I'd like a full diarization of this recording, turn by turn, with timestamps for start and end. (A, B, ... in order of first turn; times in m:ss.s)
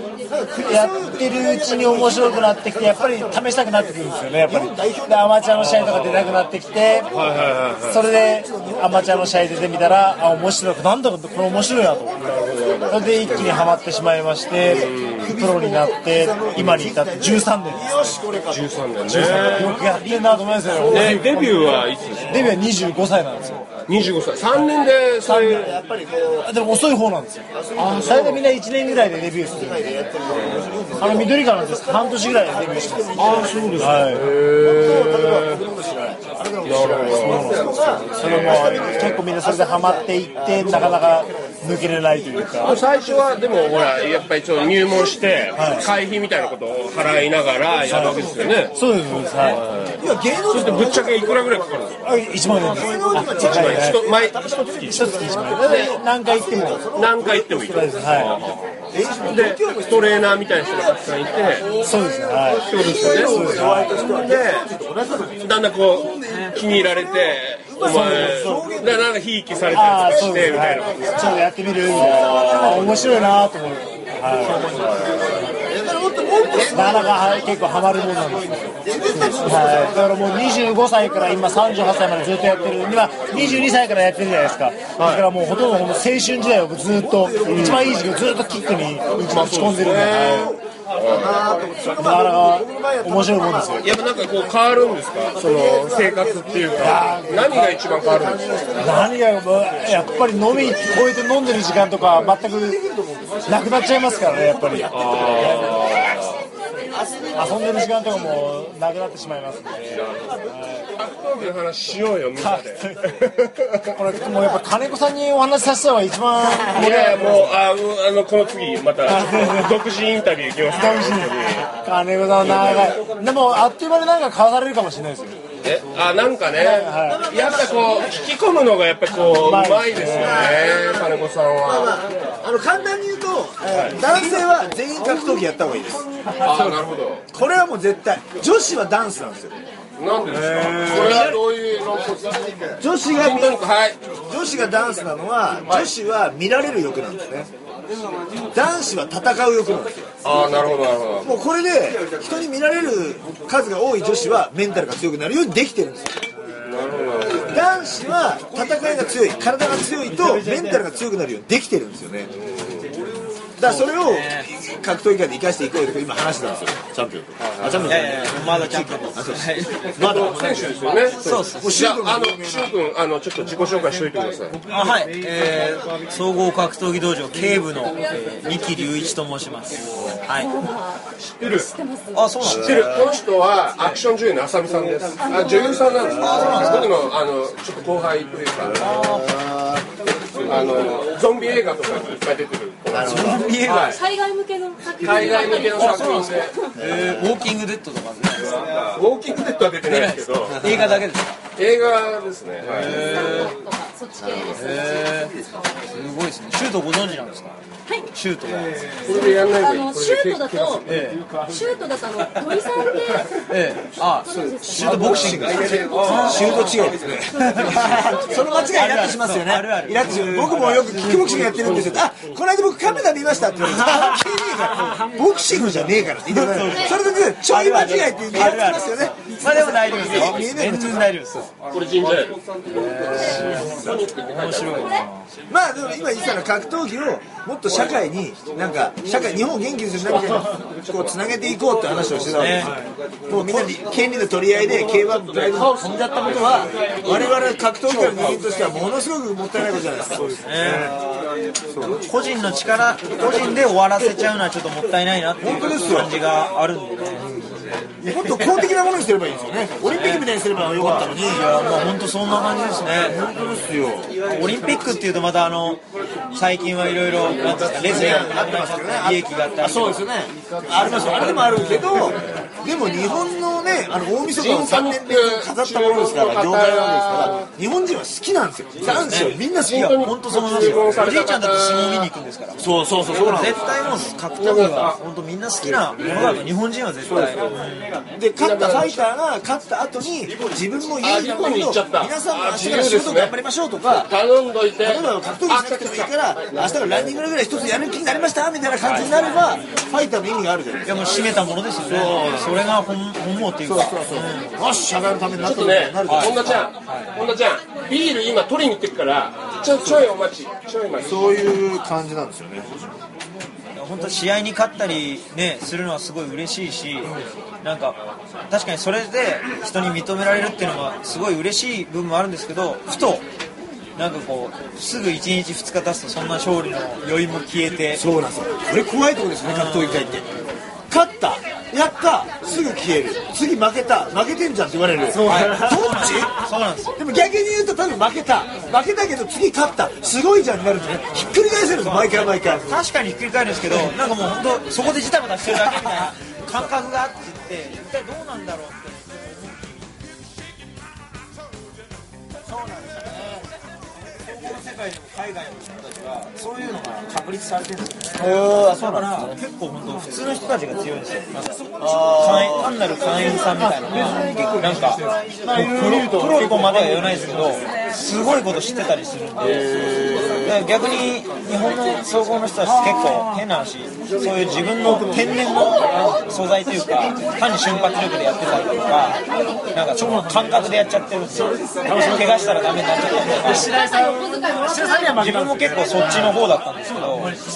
0:00.2-0:03.6 A
0:00.6-0:07.2 B
0:04.4-0:06.0 A
0:05.6-0:06.4 C
0:07.1-0:08.0 C
0:07.8-0:12.3 B
0:08.0-0:09.6 A
0:12.2-0:13.6 C
0:12.9-0:17.9 B
0:14.6-0:21.6 A
0:14.6-0:15.3 C
0:18.5-0:19.6 C
0:19.0-0:23.6 B
0:20.8-0:22.6 C
0:22.2-0:22.5 A
0:23.4-0:23.8 A
0:23.9-0:25.8 C
0:25.2-0:26.5 A
0:26.4-0:30.1 B
0:27.5-0:41.3 A
0:30.3-0:30.7 C
0:31.0-0:34.3 B
0:33.2-0:35.6 C
0:36.6-0:39.2 C
0:37.2-0:42.8 B
0:42.6-0:48.8 C
0:45.5-0:45.9 B
0:47.9-0:49.6 B
0:49.4-0:52.0 C
0:50.0-0:51.6 A
0:52.0-0:54.0 B
0:52.4-0:57.9 A
0:52.8-0:55.0 C
0:54.9-0:56.8 B
0:55.6-0:55.9 C
0:56.9-1:01.8 C
0:57.7-0:58.3 B
0:58.9-1:05.5 A
1:01.8-1:04.0 B
1:02.5-1:04.7 C
1:05.4-1:11.2 C
1:06.3-1:09.1 A
1:07.8-1:08.2 B
1:09.7-1:13.4 A
1:09.7-1:14.8 B
1:11.9-1:12.9 C
1:14.5-1:17.4 A
1:14.5-1:15.5 C
1:16.7-1:30.6 B
1:18.8-1:20.4 A
1:25.0-1:25.2 C
1:26.9-1:34.4 A
1:27.4-1:27.9 C
1:29.2-1:31.6 C
1:31.8-1:34.0 B
1:33.8-1:39.0 C
1:35.1-1:41.0 A
1:36.8-1:37.7 B
1:38.8-1:42.8 B
1:42.1-1:46.0 A
1:43.5-1:45.9 B
1:44.9-1:46.4 C
1:46.7-1:47.7 A
1:47.3-1:50.9 B
1:49.9-1:50.4 C
1:51.0-1:53.9 C
1:52.4-1:57.5 B
1:56.7-2:01.7 C
1:59.0-1:59.8 B
2:00.7-2:05.4 B
2:02.4-2:03.0 C
2:05.6-2:12.1 C
2:06.6-2:07.2 B
2:06.8-2:08.1 A
2:09.2-2:10.6 B
2:10.0-2:11.1 A
2:11.6-2:16.7 A
2:16.4-2:17.2 C
2:17.3-2:19.6 A
2:20.0-2:24.0 C
2:20.3-2:21.4 B
2:20.5-2:21.4 A
2:22.8-2:23.6 A
2:24.2-2:27.5 A
2:28.5-2:30.2 A
2:30.2-2:31.4 C
2:31.2-2:36.2 A
2:36.6-2:37.6 C
2:37.5-2:42.3 A
2:40.0-2:40.9 D
2:42.4-2:42.9 C
2:43.6-2:52.7 A
2:43.6-2:44.5 D
2:47.7-2:49.9 D
2:49.8-2:54.6 C
2:51.2-2:51.8 D
2:54.7-3:00.7 D
3:01.4-3:03.1 D
3:02.4-3:09.0 C
3:02.8-3:03.0 A
3:06.0-3:06.8 D
3:06.4-3:06.9 A
3:08.8-3:09.4 D
3:09.0-3:09.8 A
3:10.4-3:14.0 C
3:12.9-3:13.4 A
3:13.0-3:14.0 D
3:14.1-3:14.9 E
3:15.0-3:16.7 C
3:15.6-3:18.6 D
3:18.8-3:21.0 C
3:19.8-3:21.3 D
3:21.6-3:23.0 C
3:22.6-3:23.6 D
3:23.6-3:24.2 E
3:24.4-3:29.0 D
3:29.0-3:31.0 C
3:30.8-3:31.4 D
3:31.4-3:32.0 E
3:32.0-3:41.9 D
3:34.6-3:49.3 A
3:41.5-3:42.1 C
3:43.6-3:51.5 D
3:49.8-3:50.4 C
3:49.9-3:51.1 A
3:51.7-3:55.0 C
3:52.7-3:55.2 D
3:53.5-3:54.0 A
3:55.5-4:10.9 A
3:57.7-3:58.0 C
4:00.0-4:01.3 C
4:02.3-4:02.8 D
4:02.6-4:02.9 B
4:03.3-4:03.9 D
4:04.6-4:08.4 C
4:10.4-4:11.0 D
4:10.6-4:10.9 B
4:11.8-4:17.6 D
4:15.4-4:16.1 A
4:18.0-4:21.5 A
4:18.2-4:18.6 D
4:19.8-4:23.2 D
4:22.9-4:24.1 A
4:24.1-4:30.0 D
4:27.5-4:39.9 A
4:30.8-4:32.2 D
4:31.1-4:32.3 C
4:34.3-4:37.5 C
4:38.9-4:48.0 D
4:39.5-4:42.1 C
4:42.6-4:43.7 A
4:44.4-4:45.0 C
4:45.9-4:46.4 C
4:47.0-4:47.6 C
4:48.1-4:54.1 A
4:48.4-4:49.0 C
4:51.0-4:53.3 C
4:54.0-4:57.1 C
4:54.8-5:01.3 A
4:58.8-4:59.5 D
5:00.8-5:04.5 D
5:01.9-5:02.6 A
5:03.6-5:06.6 A
5:05.4-5:11.5 C
5:06.0-5:07.1 D
5:11.0-5:12.8 A
5:13.7-5:23.2 D
5:24.0-5:28.0 D
5:27.9-5:30.2 A
5:29.4-5:30.2 D
5:30.9-5:42.8 A
5:35.1-5:36.1 B
5:35.2-5:37.0 D
5:40.8-5:50.0 D
5:52.5-5:53.3 A
5:54.1-6:23.8 D
5:58.2-5:59.3 A
6:01.8-6:02.9 A
6:03.4-6:04.7 A
6:03.9-6:07.3 B
6:05.9-6:06.3 A
6:09.4-6:10.5 A
6:21.9-6:22.3 B
6:23.3-6:26.4 B
6:25.1-6:27.4 D